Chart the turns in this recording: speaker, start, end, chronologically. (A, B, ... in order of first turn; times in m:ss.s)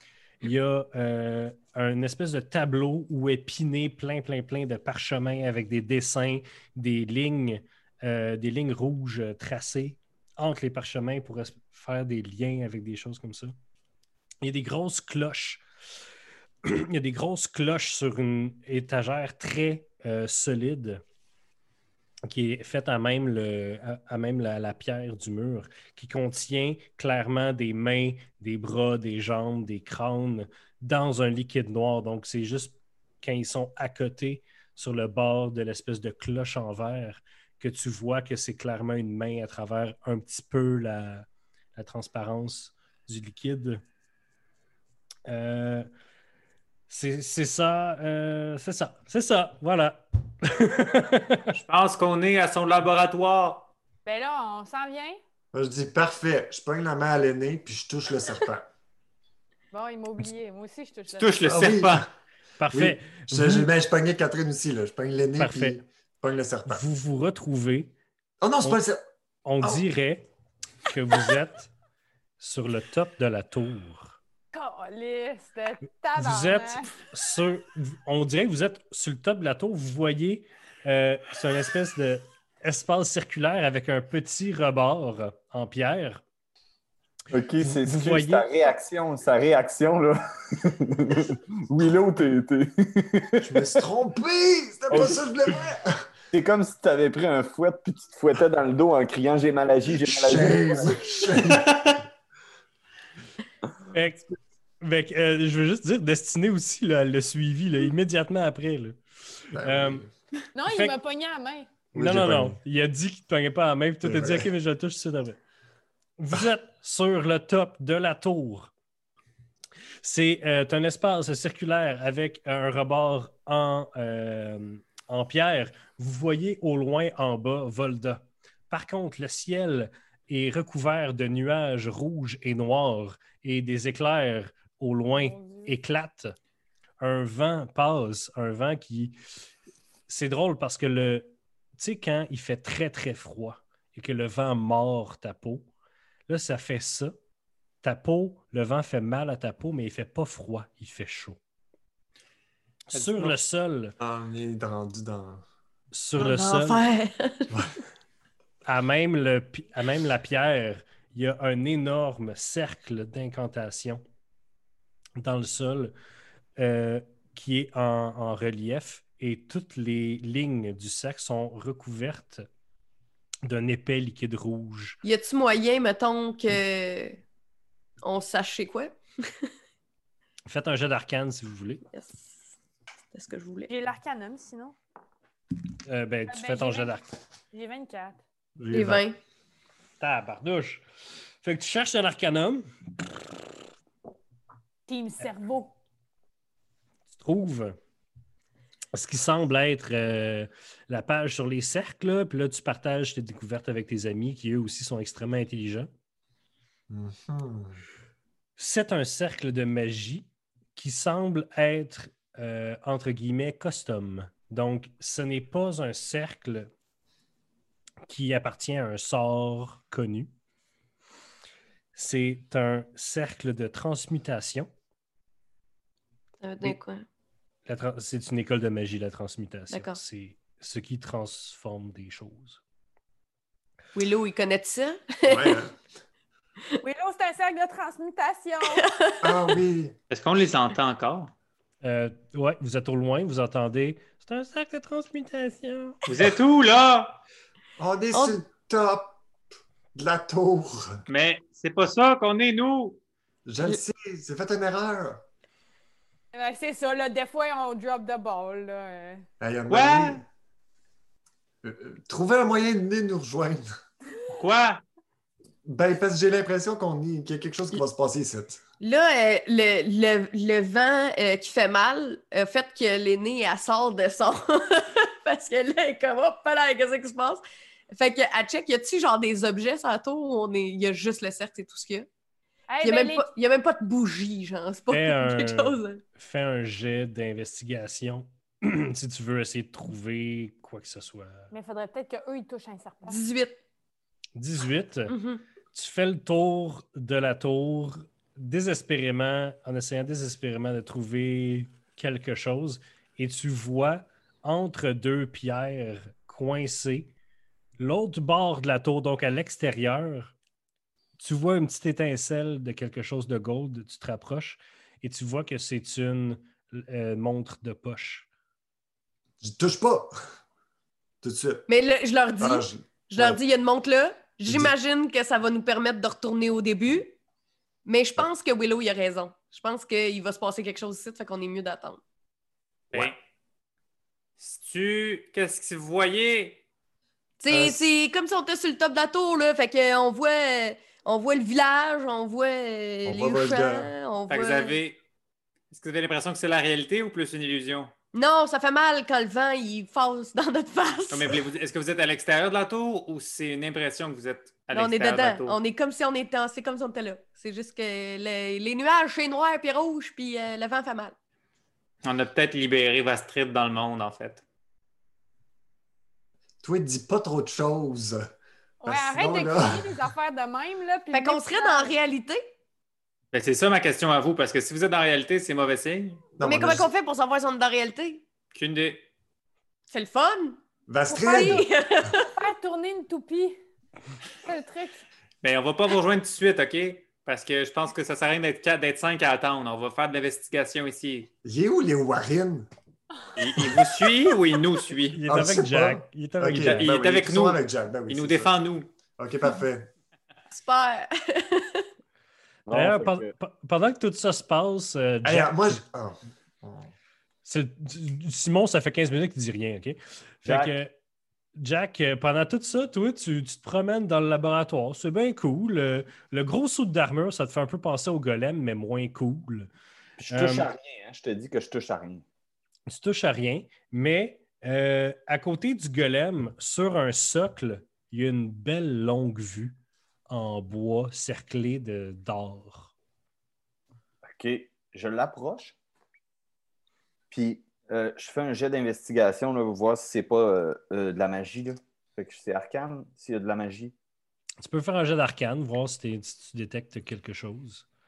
0:00.4-0:13.5 A
0:14.4-0:15.6 A
0:16.6-0:21.0 A
0:22.3-0:43.8 A
0:45.3-0:45.9 A
0:46.9-0:51.5 A
0:51.5-0:53.7 B
0:54.0-0:55.2 C
0:55.5-0:58.7 D
0:59.7-1:01.4 C
1:01.1-1:02.1 B
1:01.4-1:02.1 D
1:02.6-1:03.7 A
1:02.7-1:06.8 D
1:05.4-1:05.8 A
1:06.7-1:07.9 A
1:08.4-1:09.0 D
1:09.4-1:10.3 A
1:10.9-1:11.7 A
1:12.4-1:14.2 A
1:14.5-1:16.9 C
1:16.1-1:26.2 A
1:27.3-1:33.7 E
1:27.6-1:28.5 A
1:33.4-1:36.0 D
1:34.9-1:35.2 E
1:36.3-1:40.9 E
1:40.0-1:41.8 D
1:41.4-1:42.0 B
1:43.9-1:50.0 A
1:49.5-1:50.1 D
1:50.5-1:51.7 C
1:50.6-1:51.0 A
1:51.9-1:55.4 A
1:51.9-1:52.6 D
1:54.0-1:54.4 D
1:56.2-1:58.7 A
2:00.0-2:16.4 A
2:15.2-2:15.7 C
2:17.0-2:19.2 A
2:20.1-2:25.7 A
2:26.3-2:27.1 A
2:27.8-2:31.4 A
2:32.9-2:33.9 A
2:32.9-2:33.4 B
2:34.0-2:35.4 D
2:35.9-2:36.8 A
2:36.2-2:37.5 F
2:38.6-2:44.0 A
2:45.2-2:45.9 A
2:46.6-2:52.5 A
2:53.4-2:55.0 A
2:55.0-2:57.2 F
2:58.0-2:59.5 F
3:00.4-3:01.8 A
3:01.9-3:02.4 F
3:03.1-3:03.7 F
3:03.7-3:04.8 C
3:05.8-3:07.0 A
3:06.3-3:07.0 C
3:07.5-3:08.2 C
3:08.6-3:09.0 D
3:08.7-3:09.2 F
3:10.0-3:10.8 A
3:11.4-3:12.7 A
3:14.9-3:15.7 C
3:17.2-3:17.8 A
3:18.9-3:25.9 A
3:26.9-3:27.8 D
3:28.6-3:36.7 A
3:38.1-3:40.3 A
3:41.9-3:44.7 A
3:46.4-3:47.0 F
3:47.6-3:52.6 A
3:49.7-3:50.0 F
3:53.9-3:55.6 F
3:55.3-3:55.7 D
3:56.8-3:58.9 C
3:58.7-3:59.6 F
3:59.2-3:59.9 D
4:00.1-4:01.3 B
4:01.8-4:06.0 A
4:06.0-4:07.2 B
4:07.8-4:09.2 D
4:08.1-4:08.4 F
4:09.9-4:11.0 D
4:11.1-4:13.0 B
4:13.4-4:15.2 D
4:16.3-4:19.2 C
4:19.4-4:20.2 D
4:19.7-4:20.2 B
4:21.6-4:23.7 D
4:24.3-4:24.8 B
4:25.6-4:28.6 D
4:28.8-4:42.1 F
4:42.7-4:43.3 C
4:42.8-4:46.0 F
4:44.9-4:51.5 A
4:51.5-4:53.2 C
4:53.0-4:53.5 F
4:54.4-4:55.1 A
4:55.1-4:55.4 F
4:55.7-5:07.1 A
5:07.8-5:10.3 A
5:11.2-5:18.3 A
5:19.4-5:20.1 D
5:21.2-5:21.7 D
5:21.7-5:27.1 F
5:22.4-5:23.4 D
5:27.8-5:32.0 F
5:32.9-5:33.2 B
5:34.4-5:36.6 B
5:37.4-5:44.8 F
5:37.5-5:37.9 D
5:43.0-5:43.9 D
5:44.3-5:45.0 B
5:45.7-5:47.9 B
5:48.1-5:51.4 F
5:51.1-5:55.6 B
5:54.7-6:01.1 F
6:02.0-6:04.4 B
6:06.6-6:08.3 D
6:08.8-6:11.9 C
6:08.8-6:10.0 D
6:11.1-6:12.4 F
6:13.3-6:16.2 B
6:16.4-6:16.9 D
6:16.4-6:18.2 F
6:18.5-6:19.1 B
6:19.9-6:22.4 F
6:20.9-6:21.7 D
6:21.2-6:21.7 C
6:22.4-6:23.6 C
6:24.4-6:25.0 C
6:25.4-6:31.3 B
6:31.4-6:32.7 D
6:33.4-6:35.2 B
6:35.1-6:37.0 A
6:35.3-6:38.6 D
6:36.6-6:38.9 B
6:39.2-6:39.9 D
6:40.5-6:41.9 F
6:42.7-6:43.3 E
6:42.7-6:45.8 A
6:45.2-6:46.9 D
6:47.4-6:50.9 A
6:50.4-6:50.8 E
6:51.6-6:59.7 A
7:00.2-7:02.2 E
7:00.3-7:00.7 A
7:02.9-7:09.8 A
7:10.3-7:12.9 A
7:14.2-7:15.8 E
7:17.3-7:23.9 E
7:24.6-7:27.8 A